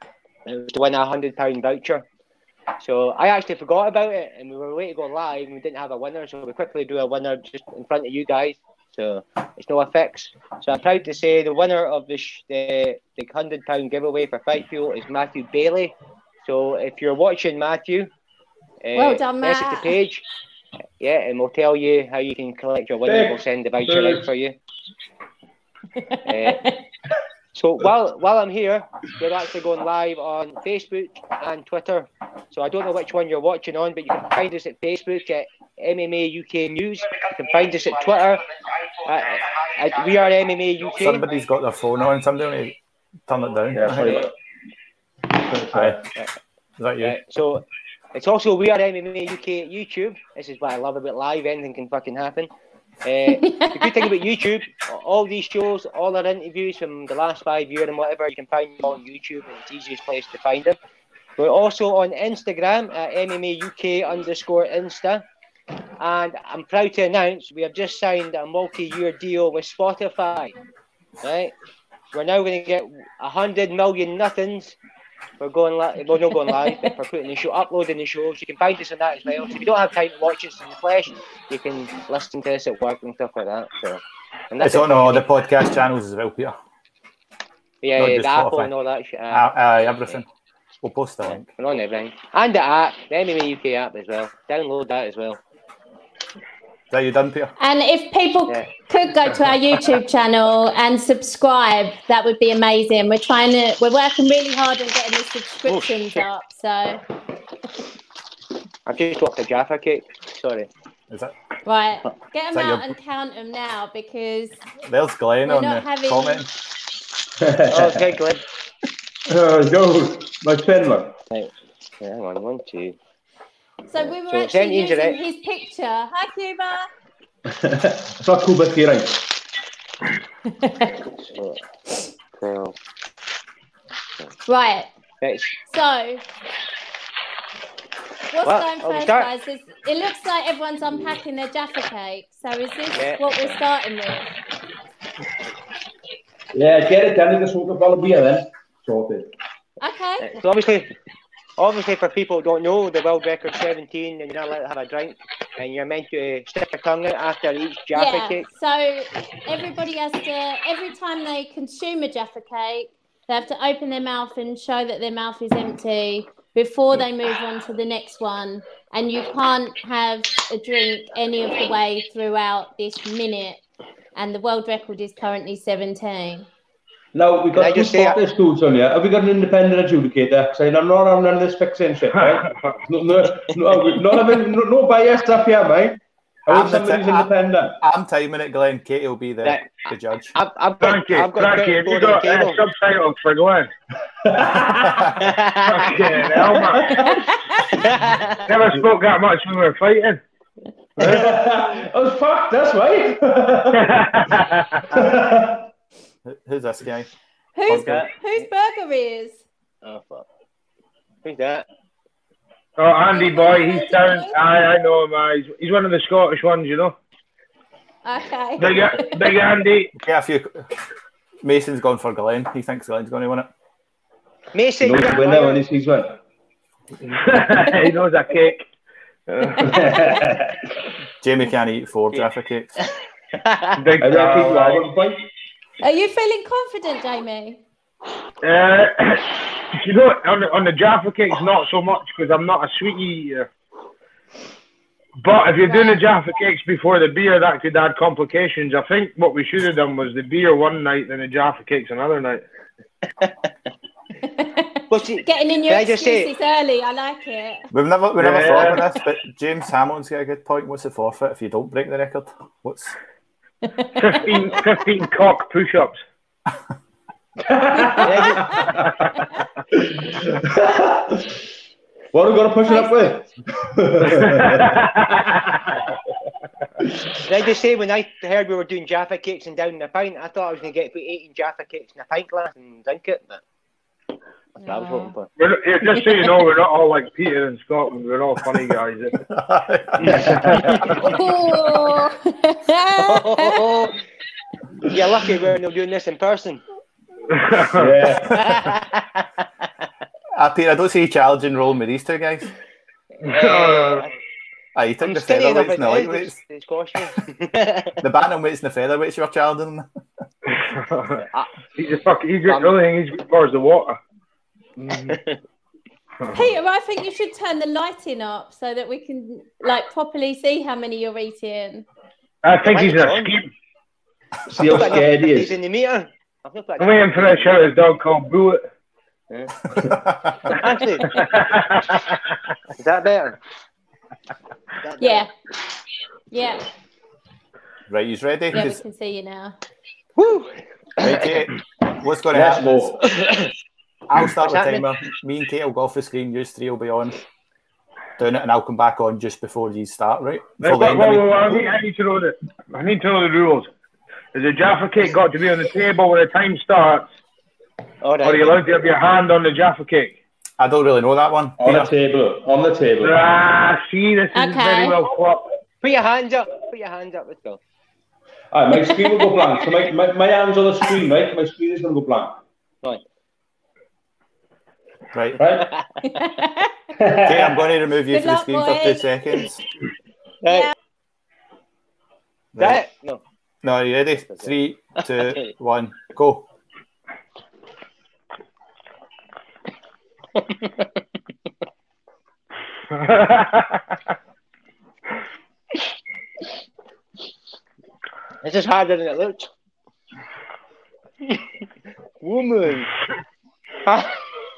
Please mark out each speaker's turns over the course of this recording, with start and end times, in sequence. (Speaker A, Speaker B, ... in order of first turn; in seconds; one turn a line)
Speaker A: 0.5-2.0
Speaker A: 2.8-18.1
Speaker A: 18.8-20.2
Speaker B: 18.9-19.9
Speaker A: 21.0-24.6
Speaker C: 23.0-24.3
Speaker B: 26.0-26.8
Speaker A: 26.3-26.6
Speaker A: 27.5-38.5
Speaker A: 39.0-41.3
Speaker D: 41.0-44.3
Speaker C: 43.7-44.3
Speaker C: 45.3-46.1
Speaker D: 46.8-47.2
Speaker A: 47.0-52.5
Speaker A: 53.0-60.8
Speaker B: 53.3-54.1
Speaker A: 61.4-65.3
Speaker A: 66.0-70.5
Speaker A: 71.2-71.6
Speaker A: 72.1-74.8
Speaker A: 75.4-85.2
Speaker D: 84.6-86.6
Speaker A: 87.8-90.2
Speaker D: 88.0-88.7
Speaker D: 89.3-90.3
Speaker D: 90.8-91.5
Speaker A: 91.2-95.4
Speaker D: 96.9-97.5
Speaker B: 97.6-107.0
Speaker A: 105.7-106.3
Speaker A: 108.9-110.7
Speaker B: 111.7-114.6
Speaker D: 112.5-112.9
Speaker D: 114.8-116.5
Speaker B: 115.4-116.4
Speaker C: 117.4-118.1
Speaker A: 117.7-118.4
Speaker C: 119.3-121.2
Speaker A: 121.3-123.0
Speaker B: 123.9-126.9
Speaker A: 124.0-125.2
Speaker C: 127.5-129.3
Speaker B: 130.5-130.9
Speaker A: 131.2-131.6
Speaker A: 132.4-132.8
Speaker B: 134.5-134.9
Speaker A: 135.2-135.6
Speaker B: 135.7-136.2
Speaker B: 138.3-144.3
Speaker A: 138.4-139.3
Speaker A: 143.0-143.6
Speaker C: 146.5-149.3
Speaker B: 149.8-150.4
Speaker A: 150.2-150.9
Speaker A: 151.6-158.5
Speaker B: 157.9-173.6
Speaker B: 174.2-176.5
Speaker C: 177.1-187.8
Speaker A: 177.5-178.2
Speaker E: 182.3-182.8
Speaker D: 186.5-190.3
Speaker A: 189.4-192.6
Speaker E: 190.8-193.7
Speaker C: 194.2-195.2
Speaker A: 195.2-196.0
Speaker E: 195.6-197.2
Speaker C: 196.4-197.3
Speaker B: 196.9-197.7
Speaker A: 197.7-198.4
Speaker E: 198.5-200.2
Speaker E: 201.0-201.3
Speaker C: 201.0-203.9
Speaker E: 203.7-204.8
Speaker C: 204.9-205.7
Speaker D: 206.3-207.1
Speaker B: 207.6-209.4
Speaker D: 207.7-208.0
Speaker A: 207.7-208.4
Speaker A: 209.8-210.3
Speaker A: 211.2-211.7
Speaker E: 212.8-217.0
Speaker B: 213.1-214.4
Speaker B: 218.0-219.3
Speaker E: 218.6-219.9
Speaker D: 220.0-220.7
Speaker D: 221.4-223.5
Speaker A: 224.5-225.7
Speaker C: 224.8-226.2
Speaker E: 227.0-228.7
Speaker E: 229.3-229.9
Speaker C: 229.6-230.6
Speaker B: 229.7-230.2
Speaker D: 231.2-232.8
Speaker A: 233.4-233.7
Speaker E: 233.8-234.8
Speaker C: 234.0-235.3
Speaker B: 235.8-237.6
Speaker E: 238.4-243.5
Speaker E: 245.2-252.4
Speaker B: 245.7-246.0
Speaker B: 254.3-257.7
Speaker A: 254.9-256.3
Speaker D: 257.7-263.0
Speaker E: 258.2-258.8
Speaker B: 263.6-264.2
Speaker E: 264.0-266.0
Speaker C: 267.4-268.9
Speaker A: 268.0-268.8
Speaker C: 269.7-271.4
Speaker C: 272.1-274.8
Speaker B: 272.7-273.1
Speaker E: 274.1-275.8
Speaker C: 276.8-277.1
Speaker A: 277.2-283.4
Speaker B: 284.6-285.1
Speaker A: 284.6-285.3
Speaker E: 285.4-289.2
Speaker D: 289.3-290.8
Speaker E: 290.0-291.1
Speaker C: 290.1-290.9
Speaker B: 291.0-293.6
Speaker A: 293.0-294.0
Speaker A: 294.8-296.6
Speaker E: 297.3-297.9
Speaker C: 297.7-298.4
Speaker A: 298.3-299.3
Speaker D: 300.4-302.5
Speaker A: 303.2-304.1
Speaker E: 303.2-304.1
Speaker D: 304.8-306.4
Speaker A: 305.0-308.0
Speaker D: 308.0-309.9
Speaker E: 310.5-311.2
Speaker A: 311.2-311.5
Speaker E: 311.8-314.0
Speaker A: 312.5-312.7
Speaker E: 314.8-315.1
Speaker A: 315.1-315.4
Speaker B: 316.3-321.9
Speaker E: 322.4-323.5
Speaker A: 322.6-323.3
Speaker C: 324.5-325.5
Speaker A: 324.6-327.7
Speaker E: 326.8-328.6
Speaker A: 329.3-329.6
Speaker A: 330.4-331.3
Speaker E: 331.1-332.0
Speaker A: 332.7-333.4
Speaker A: 334.8-335.3
Speaker B: 335.0-335.3
Speaker B: 336.3-336.6
Speaker D: 337.9-338.8
Speaker B: 338.5-339.6
Speaker A: 340.2-341.3
Speaker D: 341.0-343.0
Speaker C: 342.3-343.1
Speaker A: 343.1-343.5
Speaker D: 344.1-347.2
Speaker A: 344.4-344.9
Speaker D: 348.2-351.5
Speaker E: 350.6-353.7
Speaker E: 354.3-357.1
Speaker A: 358.0-358.6
Speaker E: 358.2-360.2
Speaker D: 360.6-361.9
Speaker C: 361.6-363.2
Speaker E: 363.0-365.4
Speaker B: 364.3-365.0
Speaker A: 365.8-367.6
Speaker C: 368.5-372.4
Speaker B: 368.8-369.3
Speaker D: 375.1-375.4
Speaker C: 375.4-375.7
Speaker B: 376.0-376.7
Speaker C: 377.0-377.6
Speaker D: 377.2-379.6
Speaker B: 378.1-379.1
Speaker A: 380.4-380.7
Speaker B: 380.5-380.7
Speaker D: 382.6-382.8
Speaker A: 382.6-383.2
Speaker D: 383.6-386.5
Speaker A: 390.4-390.9
Speaker E: 392.9-393.8
Speaker A: 398.4-399.5
Speaker A: 402.2-402.9
Speaker A: 403.9-404.1